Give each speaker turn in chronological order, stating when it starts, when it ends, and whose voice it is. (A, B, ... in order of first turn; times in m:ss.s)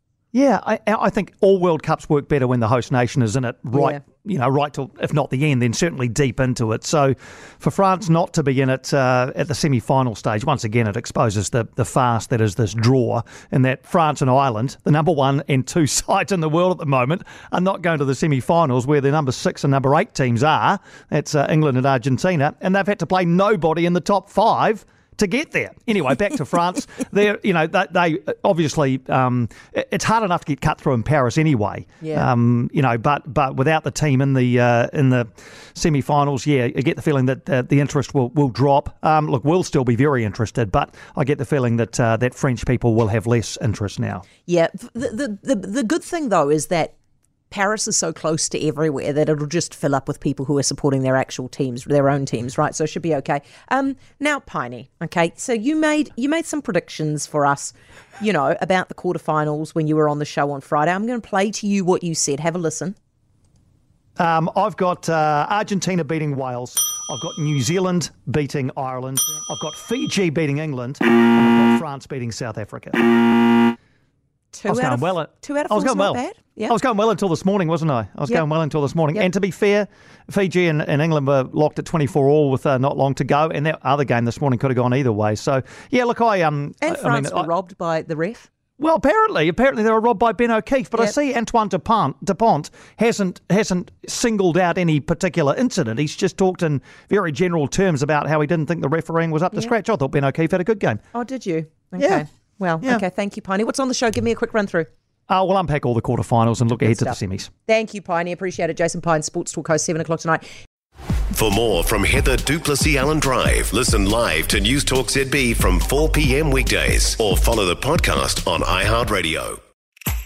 0:00.3-0:44.2 A
0:03.7-0:04.0 B
0:32.0-0:32.3 B
0:44.4-0:46.9 B
0:47.5-1:03.0 B
1:04.2-1:13.3 A
1:14.5-1:16.8 B
1:14.7-1:27.5 A
1:26.8-1:28.5 B
1:28.8-1:41.0 A
1:41.1-1:44.9 B
1:42.0-1:42.2 A
1:45.3-1:47.5 A
1:46.8-1:50.4 B
1:51.3-1:59.6 C